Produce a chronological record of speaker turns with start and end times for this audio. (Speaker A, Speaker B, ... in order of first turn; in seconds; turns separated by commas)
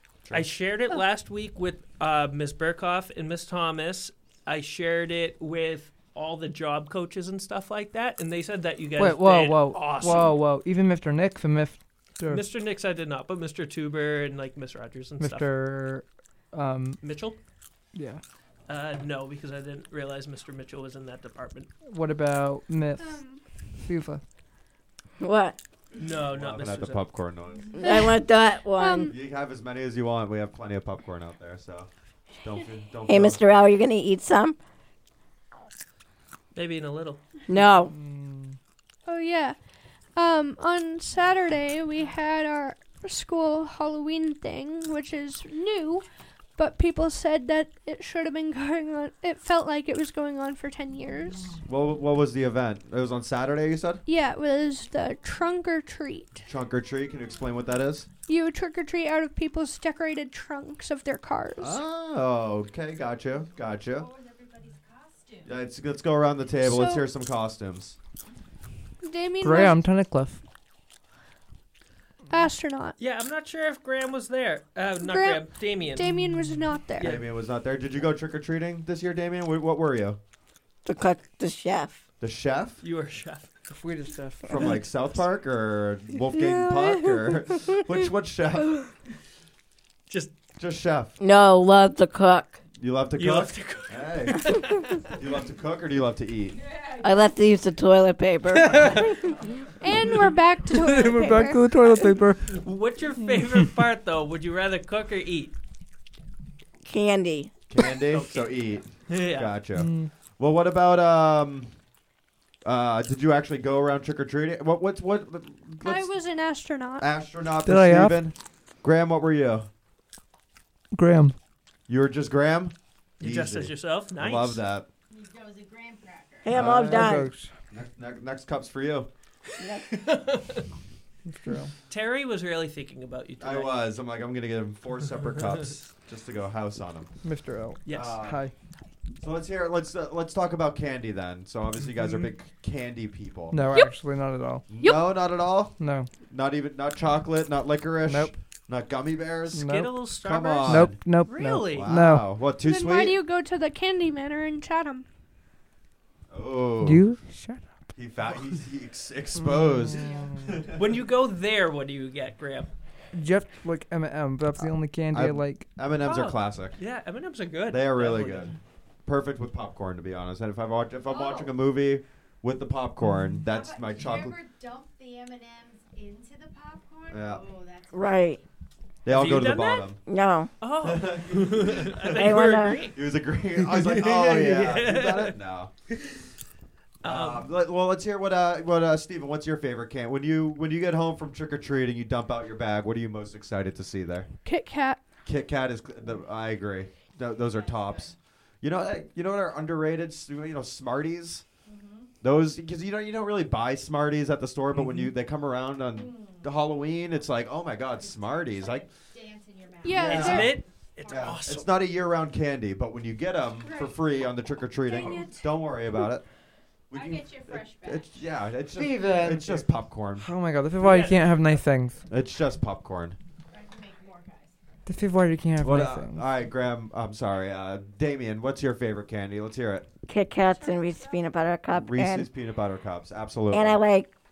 Speaker A: 0.3-10.3, Speaker B: 9.0-12.4, Speaker A: 12.3-15.5, Speaker B: 15.2-17.0, Speaker A: 17.0-17.4, Speaker B: 17.9-18.2, Speaker A: 18.7-21.7, Speaker B: 21.9-23.2, Speaker C: 23.0-23.4, Speaker B: 23.8-24.2, Speaker D: 25.2-25.6, Speaker A: 26.0-27.0, Speaker E: 26.3-27.8, Speaker D: 27.7-29.1, Speaker C: 27.8-28.2, Speaker C: 28.8-29.1, Speaker E: 29.1-31.9, Speaker E: 32.4-33.4, Speaker D: 33.1-34.6, Speaker A: 36.5-37.2, Speaker D: 37.5-37.9, Speaker B: 37.5-38.6, Speaker C: 39.1-39.6, Speaker C: 40.2-46.0, Speaker C: 46.6-51.6, Speaker E: 51.7-54.0, Speaker C: 54.1-56.5, Speaker E: 56.5-58.1, Speaker C: 58.3-61.8, Speaker E: 61.6-64.1, Speaker F: 63.7-65.6, Speaker E: 65.5-68.0, Speaker C: 66.6-67.1, Speaker C: 69.0-69.8, Speaker B: 69.4-70.4, Speaker C: 72.3-73.0, Speaker A: 73.0-76.0, Speaker C: 75.0-77.1, Speaker A: 77.0-77.2, Speaker E: 77.0-80.2, Speaker D: 80.8-82.0, Speaker E: 82.2-82.8, Speaker A: 82.8-83.5, Speaker B: 83.7-84.7, Speaker E: 84.5-88.9, Speaker C: 86.4-87.2, Speaker A: 90.1-90.3, Speaker E: 90.6-91.2, Speaker D: 91.2-92.6, Speaker E: 92.8-96.6, Speaker A: 93.2-95.1, Speaker F: 96.6-97.0, Speaker D: 97.0-99.3, Speaker B: 98.5-99.1, Speaker C: 99.8-101.7, Speaker B: 100.7-102.6, Speaker A: 102.5-105.5, Speaker D: 106.8-107.5, Speaker E: 107.7-111.7, Speaker A: 107.8-109.5, Speaker B: 109.8-110.1, Speaker E: 112.6-116.1, Speaker C: 115.8-117.1, Speaker E: 117.0-119.7, Speaker B: 117.7-118.2, Speaker B: 120.9-121.4, Speaker E: 121.9-124.9, Speaker A: 123.2-124.6, Speaker F: 125.1-126.5, Speaker D: 126.4-127.3, Speaker E: 126.5-127.2, Speaker B: 126.6-127.5, Speaker E: 127.7-129.1, Speaker D: 129.6-129.9, Speaker A: 129.8-130.7, Speaker B: 131.3-131.7, Speaker A: 131.9-133.8, Speaker E: 133.4-137.1, Speaker B: 137.2-138.5, Speaker A: 137.9-138.1, Speaker E: 137.9-138.4, Speaker E: 139.2-143.6, Speaker B: 143.5-144.7, Speaker E: 144.7-145.8, Speaker B: 145.8-146.1, Speaker E: 146.3-151.0, Speaker B: 148.1-148.4, Speaker B: 149.5-150.1, Speaker A: 149.7-151.9, Speaker B: 150.6-152.3, Speaker E: 151.7-153.2, Speaker C: 152.6-155.1, Speaker E: 156.3-157.1, Speaker B: 156.8-157.9, Speaker E: 157.9-161.0, Speaker B: 159.4-160.5, Speaker F: 159.9-160.6, Speaker A: 160.7-162.7, Speaker B: 163.1-165.7, Speaker E: 164.6-166.8, Speaker A: 166.0-168.5, Speaker E: 167.7-168.6, Speaker E: 169.1-174.4, Speaker F: 171.1-171.5, Speaker F: 173.5-178.4, Speaker E: 177.1-177.4, Speaker D: 177.9-178.4, Speaker E: 179.1-180.0, Speaker A: 179.1-179.9, Speaker D: 180.1-180.5, Speaker A: 180.6-183.0, Speaker E: 180.8-185.7, Speaker D: 182.1-182.8, Speaker A: 183.6-185.3, Speaker A: 187.0-187.5, Speaker E: 187.0-194.3, Speaker C: 194.4-195.0, Speaker E: 195.3-201.4, Speaker F: 197.4-198.2, Speaker F: 201.7-202.1, Speaker E: 202.2-208.9, Speaker F: 205.9-206.5, Speaker F: 208.0-210.5, Speaker C: 209.8-210.6, Speaker E: 209.9-216.3, Speaker A: 210.1-211.7, Speaker F: 211.1-211.5, Speaker F: 213.6-214.0, Speaker C: 214.8-215.4, Speaker F: 215.0-215.3, Speaker E: 216.9-220.3, Speaker F: 216.9-218.2, Speaker B: 218.8-219.7, Speaker B: 220.2-222.1, Speaker A: 220.8-221.6, Speaker E: 222.1-223.2, Speaker F: 223.5-224.6, Speaker B: 224.9-226.2, Speaker E: 225.6-229.9, Speaker D: 230.1-232.3, Speaker C: 230.5-231.2, Speaker E: 231.8-233.8, Speaker D: 233.5-234.1